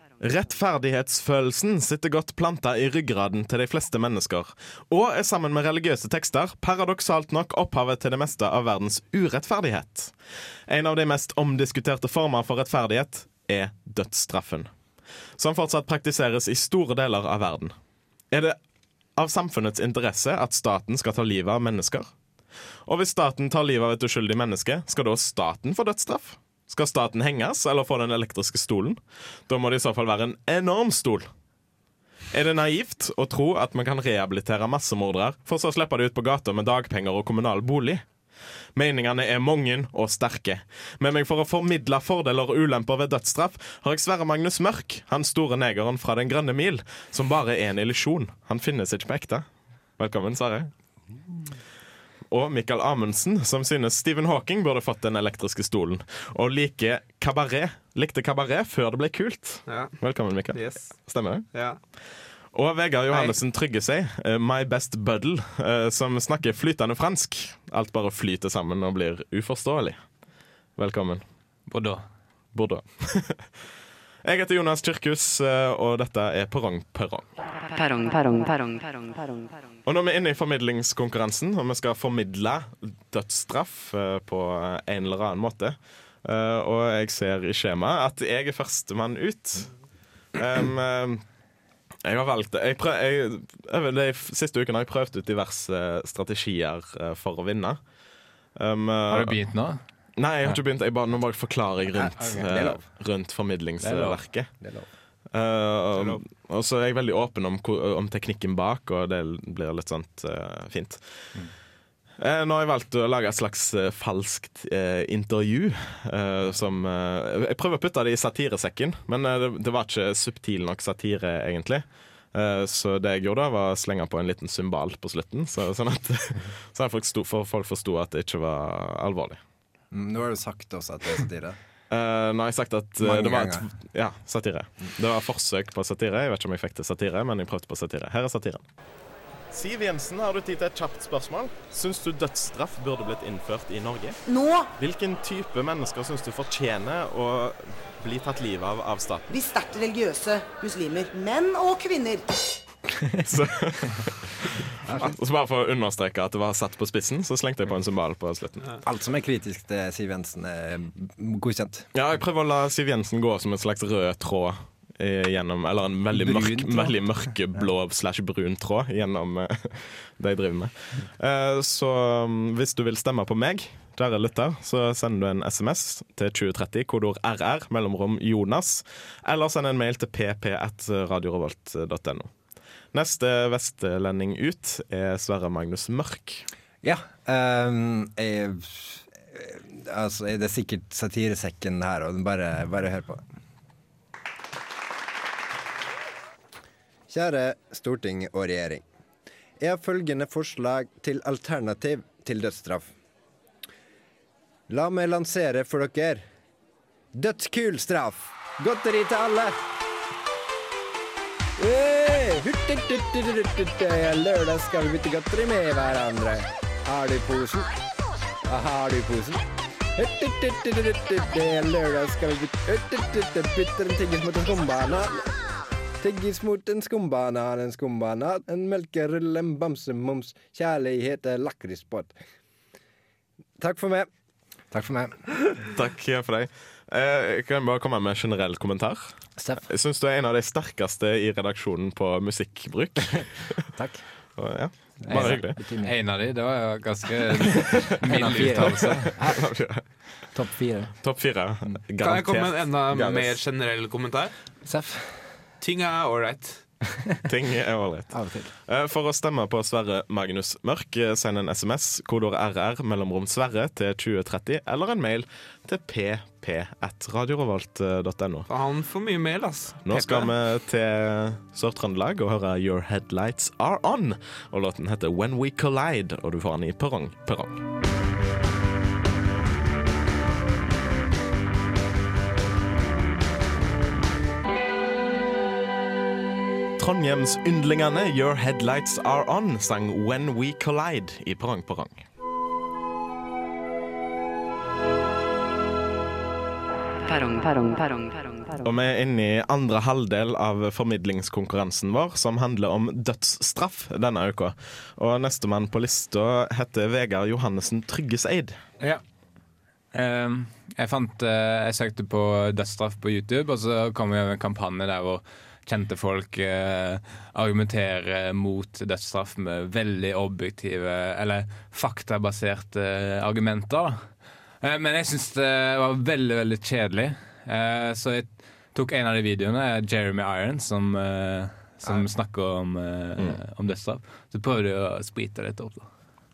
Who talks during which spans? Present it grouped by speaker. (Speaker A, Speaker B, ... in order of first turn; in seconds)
Speaker A: 0.2-10.1, 10.7-14.7, 15.4-17.7, 18.3-18.6, 19.1-22.1, 22.9-31.3, 32.3-38.0, 38.7-49.5, 50.0-50.7, 52.3-61.4, 62.5-70.0, 70.8-71.2, 72.5-73.5, 74.2-77.3, 79.8-89.7, 90.3-91.2, 92.0-97.8, 98.5-99.4, 100.2-104.5, 105.3-111.0, 112.2-129.4, 131.9-138.6, 139.5-144.2, 144.8-149.3, 153.2-158.8, 161.9-182.3, 182.9-186.4, 235.7-243.5, 244.4-245.6, 248.0-249.8, 251.0-253.3, 257.2-268.5, 269.8-277.6, 286.8-292.0, 298.6-308.6
Speaker B: 59.7-60.0, 60.5-61.0, 61.5-61.8, 63.1-63.4, 252.0-254.3, 255.6-256.6, 268.5-270.3
Speaker C: 71.7-72.0, 99.1-99.8, 102.2-102.5, 103.8-104.2, 245.1-249.1, 309.9-324.1, 324.6-335.9
Speaker D: 77.6-79.8, 297.0-298.7
Speaker E: 101.9-102.8, 104.6-104.9, 129.9-131.6, 133.0-133.7, 154.8-155.1, 158.8-161.9, 166.1-167.0, 186.8-193.2, 197.1-198.8, 199.6-202.9, 204.7-206.2, 207.1-209.5, 211.6-217.7, 218.4-219.4, 219.9-225.3, 226.0-232.1, 233.6-234.1, 234.7-235.2, 243.7-244.0, 245.0-245.9, 247.7-249.5, 250.3-250.9, 254.6-255.2, 258.1-258.5
Speaker F: 144.2-144.7, 149.3-152.4